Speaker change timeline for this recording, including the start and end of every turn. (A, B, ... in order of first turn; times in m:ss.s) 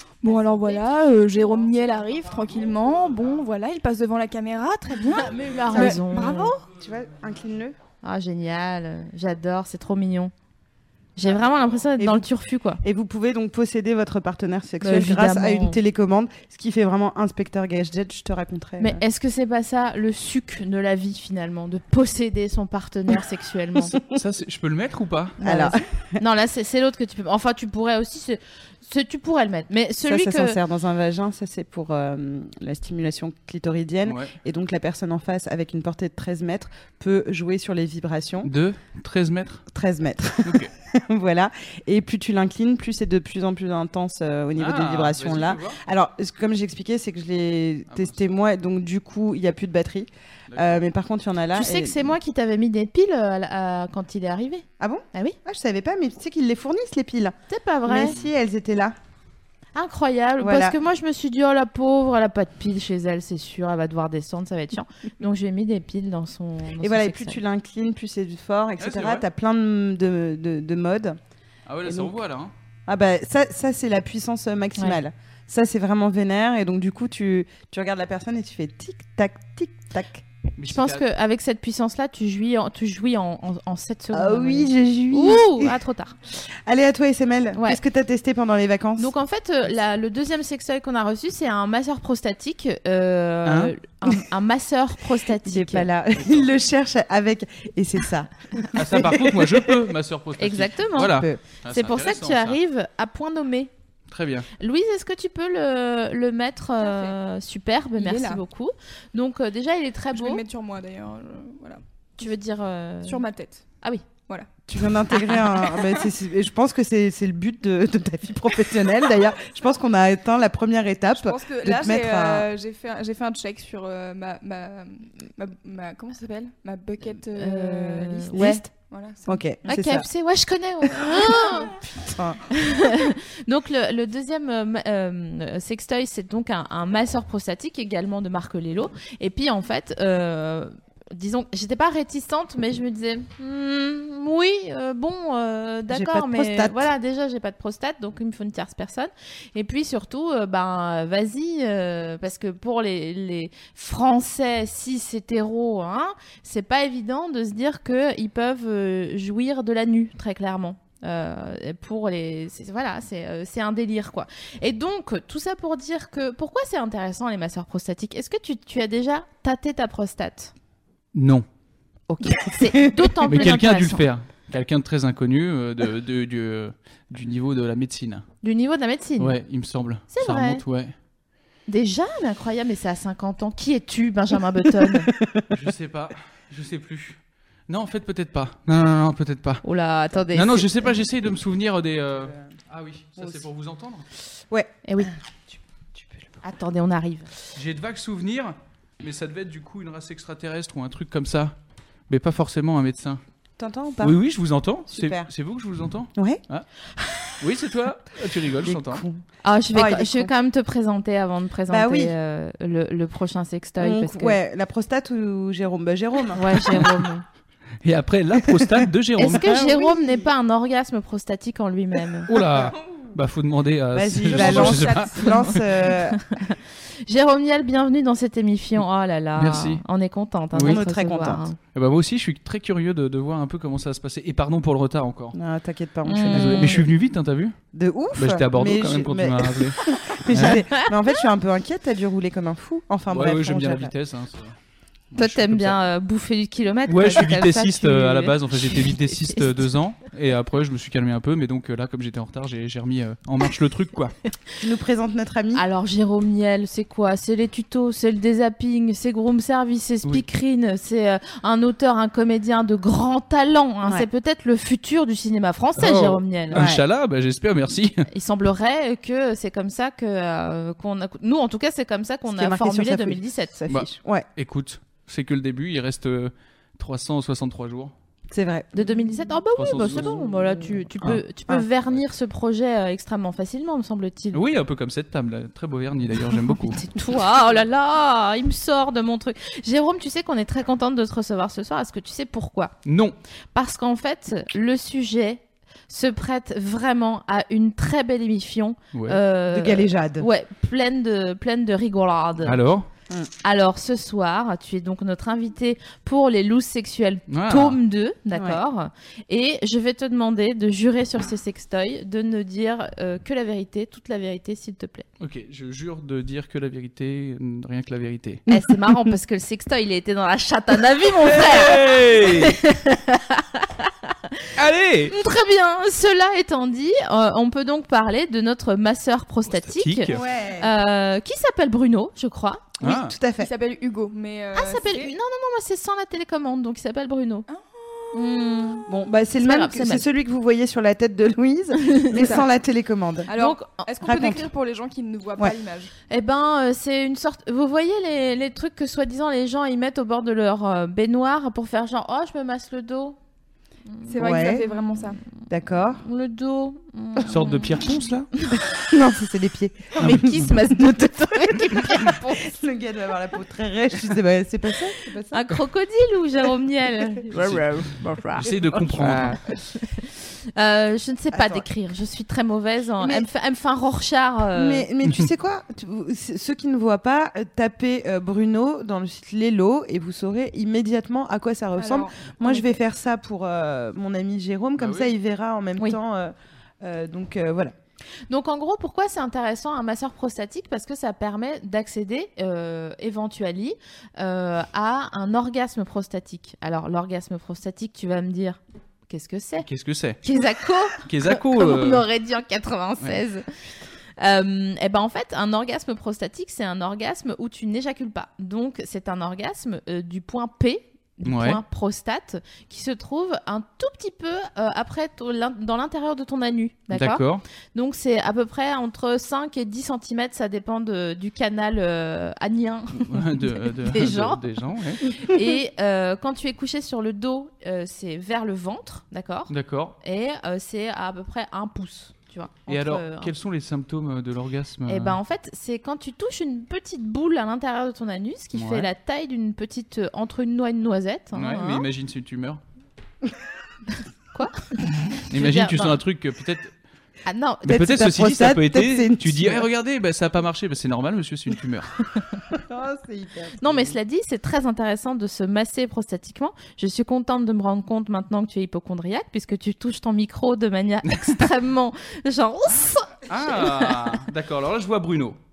0:00.2-0:06.7 A
0:00.2-0:02.4 B
0:05.1-0:06.5 B
0:05.7-0:06.0 C
0:06.7-0:07.8 C
0:08.0-0:10.3 B
0:11.2-0:12.8 B
0:12.0-0:12.3 C
0:12.8-0:19.0 C
0:14.8-0:15.8 B
0:18.8-0:24.0 B
0:24.1-0:25.4 D
0:25.4-0:26.2 C
0:25.4-0:30.6 B
0:30.0-0:38.5 C
0:34.0-0:34.3 D
0:38.4-0:39.6 D
0:39.7-0:52.1 C
0:40.4-0:40.7 D
0:44.6-0:45.8 D
0:47.9-0:48.2 D
0:50.5-0:50.8 D
0:51.5-0:55.4 B
0:54.8-0:58.9 C
0:57.5-0:58.1 B
0:59.7-1:07.4 B
1:00.4-1:00.8 C
1:06.8-1:11.2 C
1:08.8-1:09.2 D
1:11.7-1:12.5 D
1:11.8-1:12.2 C
1:12.9-1:20.2 C
1:20.6-1:21.0 D
1:20.6-1:26.1 B
1:24.1-1:25.8 C
1:26.3-1:29.1 C
1:29.0-1:35.9 B
1:33.4-1:33.7 D
1:35.4-1:39.8 C
1:36.2-1:36.5 D
1:38.7-1:42.6 D
1:40.4-1:43.7 B
1:41.0-1:41.4 C
1:44.1-1:44.5 D
1:44.6-1:50.4 B
1:46.8-1:47.2 A
1:48.0-1:48.4 A
1:50.1-1:51.8 A
1:52.2-1:53.2 B
1:53.0-1:53.6 A
1:54.7-2:02.5 C
2:01.1-2:09.4 A
2:07.3-2:08.6 B
2:08.3-2:08.7 C
2:09.2-2:10.0 C
2:09.6-2:11.7 B
2:11.8-2:12.5 C
2:12.5-2:50.5 B
2:25.9-2:26.9 C
2:51.1-2:51.4 D
2:52.1-2:54.0 B
2:52.2-2:53.5 C
2:53.3-2:58.2 D
2:58.4-2:59.4 B
2:59.2-3:00.9 D
3:00.1-3:00.6 B
3:01.7-3:05.1 B
3:04.8-3:05.5 C
3:05.5-3:09.6 D
3:09.6-3:10.9 B
3:10.3-3:14.1 D
3:13.2-3:13.4 C
3:14.5-3:16.4 C
3:14.8-3:15.1 B
3:16.4-3:17.3 B
3:17.5-3:21.5 D
3:22.1-3:23.2 D
3:23.6-3:24.2 C
3:24.0-3:26.7 D
3:24.9-3:25.3 C
3:26.2-3:26.4 C
3:27.4-3:29.0 D
3:28.6-3:30.3 C
3:29.4-3:34.4 B
3:31.7-3:32.1 C
3:33.8-3:36.9 C
3:36.3-3:37.2 B
3:37.8-3:39.6 D
3:38.4-3:40.3 C
3:39.2-3:42.3 B
3:42.3-3:45.5 D
3:42.5-3:43.1 A
3:43.9-3:46.2 C
3:44.3-3:45.5 A
3:46.1-3:46.6 B
3:47.1-3:51.6 B
3:49.4-3:49.8 D
3:50.5-3:50.8 D
3:50.6-3:51.4 C
3:51.7-3:55.3 D
3:55.3-3:56.9 C
3:56.0-3:56.8 B
3:56.3-3:57.6 D
3:57.7-4:03.9 C
3:58.1-4:00.6 D
4:03.1-4:04.6 D
4:05.1-4:05.8 D
4:05.2-4:09.6 B
4:06.9-4:14.1 D
4:14.6-4:15.6 C
4:15.5-4:26.6 B
4:25.8-4:28.1 D
4:26.5-4:26.8 C
4:28.1-4:33.5 B
4:32.3-4:34.3 C
4:33.7-4:37.9 D
4:38.3-4:38.8 C
4:38.7-4:44.4 B
4:39.6-4:40.2 D
4:39.8-4:40.2 C
4:44.3-4:46.8 D
4:46.7-4:52.7 B
4:52.8-4:53.2 D
4:53.5-5:02.6 B
4:58.9-4:59.2 D
4:59.5-5:00.3 C
5:02.4-5:02.9 D
5:03.4-5:15.0 B
5:07.3-5:07.8 D
5:08.3-5:08.6 C
5:15.2-5:18.4 D
5:18.5-5:24.5 B
5:18.5-5:18.8 C
5:21.2-5:22.6 D
5:24.6-5:25.1 D
5:25.1-5:32.7 B
5:29.5-5:30.2 D
5:30.1-5:30.7 C
5:32.8-5:33.1 D
5:32.8-5:33.5 C
5:33.4-5:35.1 A
5:34.5-5:37.5 B
5:37.5-5:38.2 A
5:38.1-5:38.8 B
5:38.8-5:43.3 C
5:39.4-5:40.0 B
5:41.9-5:42.1 B
5:42.1-5:42.4 A
5:43.2-5:45.9 A
5:43.3-5:43.9 B
5:44.0-5:44.4 C
5:46.1-5:53.2 B
5:53.9-5:55.2 B
5:54.0-5:55.2 A
5:54.2-5:54.6 C
5:55.5-5:56.0 C
5:56.0-5:57.8 B
5:57.2-5:58.3 D
5:58.4-5:58.6 B
5:58.8-6:05.4 C
6:00.0-6:02.5 B
6:00.0-6:00.3 D
6:05.3-6:08.5 B
6:07.3-6:07.8 D
6:08.4-6:09.4 D
6:08.5-6:09.6 C
6:09.0-6:14.9 B
6:11.3-6:11.6 C
6:13.0-6:13.3 C
6:14.5-6:27.7 C
6:21.8-6:22.6 A
6:24.8-6:25.1 D
6:28.3-6:39.7 B
6:39.6-6:40.2 D
6:40.2-6:43.4 B
6:41.0-6:42.0 D
6:44.2-7:13.3 B
6:51.2-6:51.6 D
6:56.9-6:57.4 D
7:02.9-7:05.0 D
7:09.5-7:10.0 D
7:12.7-7:15.2 D
7:14.9-7:21.8 B
7:18.5-7:18.9 D
7:21.3-7:22.6 D
7:24.3-7:26.0 B
7:25.2-7:26.7 D
7:27.2-7:27.8 B
7:27.6-7:29.6 C
7:27.7-7:31.9 D
7:32.5-7:33.9 C
7:33.6-7:44.2 B
7:43.3-7:45.4 D